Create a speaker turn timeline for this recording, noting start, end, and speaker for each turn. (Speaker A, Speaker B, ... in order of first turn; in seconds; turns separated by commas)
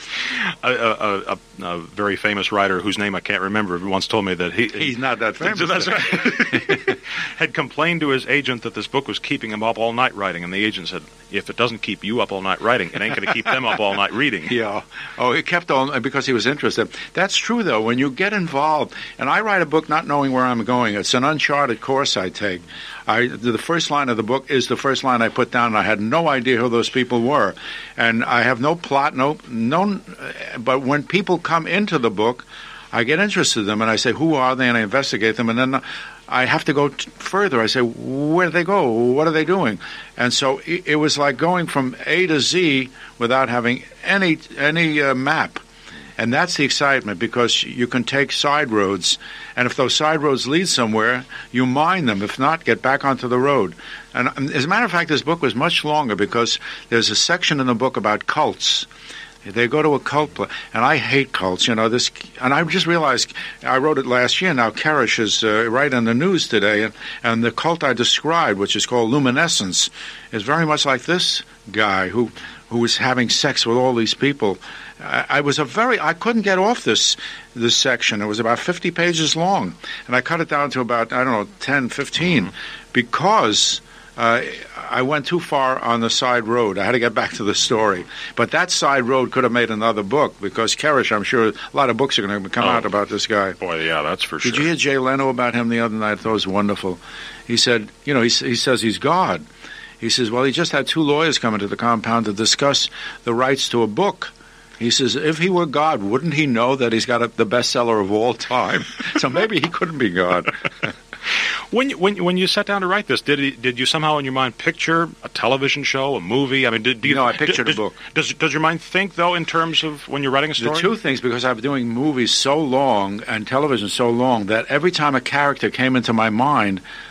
Speaker A: 0.1-14.5, Speaker B: 4.7-6.8, Speaker B: 14.5-45.6, Speaker B: 46.2-58.9, Speaker B: 59.4-93.6, Speaker A: 92.6-92.9, Speaker A: 93.6-94.7, Speaker B: 94.4-99.4, Speaker B: 100.0-110.9, Speaker A: 111.7-120.9, Speaker B: 117.0-118.0, Speaker B: 120.6-126.8